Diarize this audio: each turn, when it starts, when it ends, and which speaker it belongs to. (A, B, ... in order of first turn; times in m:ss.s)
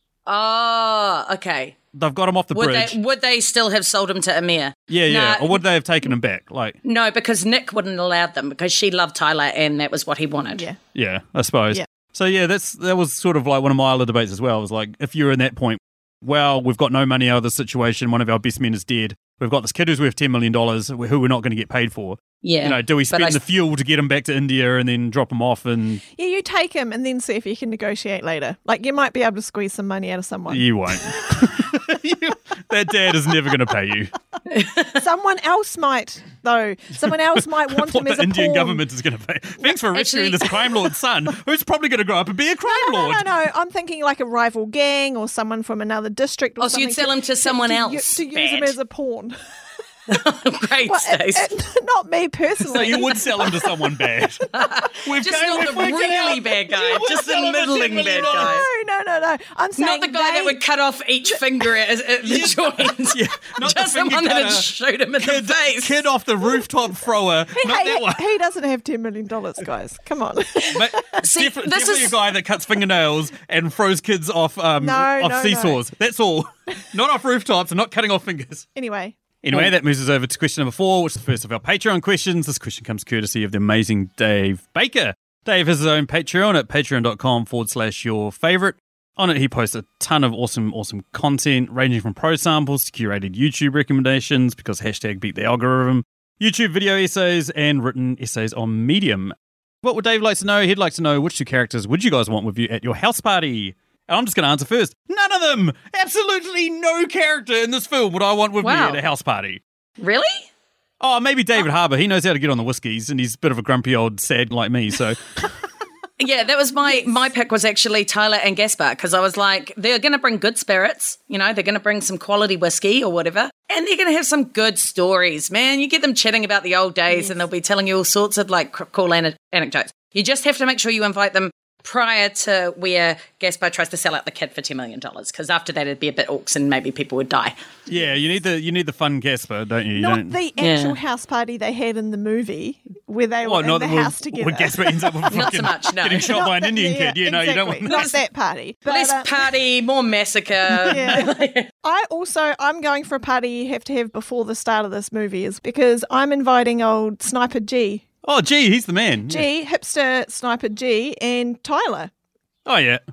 0:00.3-0:01.8 A
0:01.9-0:03.0 B
0:02.5-0:05.6 A
0:04.9-0:06.8 B
0:06.8-0:10.6 A
0:10.9-0:26.0 B
0:22.4-0:23.4 A
0:26.2-0:31.4 C
0:30.5-0:34.1 B
0:34.5-0:35.0 A
0:35.0-0:38.8 C
0:37.0-0:43.2 B
0:39.9-0:40.6 A
0:42.7-0:49.4 C
0:46.6-0:48.8 A
0:50.1-0:51.5 A
0:50.8-0:53.8 C
0:52.7-0:54.4 B
0:54.5-0:58.6 A
0:55.0-0:58.6 B
0:58.0-1:00.6 C
0:59.8-1:06.0 A
1:02.2-1:04.6 B
1:05.2-1:08.2 B
1:07.6-1:11.2 C
1:10.7-1:18.6 B
1:11.2-1:12.1 A
1:14.8-1:15.8 C
1:18.8-1:19.2 C
1:19.4-1:49.6 B
1:48.6-1:49.0 A
1:50.0-1:50.5 A
1:51.0-1:55.2 B
1:56.2-2:17.5 A
2:07.1-2:07.4 C
2:17.9-2:20.4 B
2:19.9-2:25.7 C
2:20.6-2:21.0 A
2:23.4-2:28.1 B
2:25.3-2:26.4 A
2:26.2-2:29.5 C
2:27.9-2:28.1 A
2:28.9-2:31.7 A
2:30.8-2:38.0 C
2:30.9-2:31.2 B
2:38.2-2:39.5 B
2:39.3-2:42.1 C
2:42.6-2:43.0 B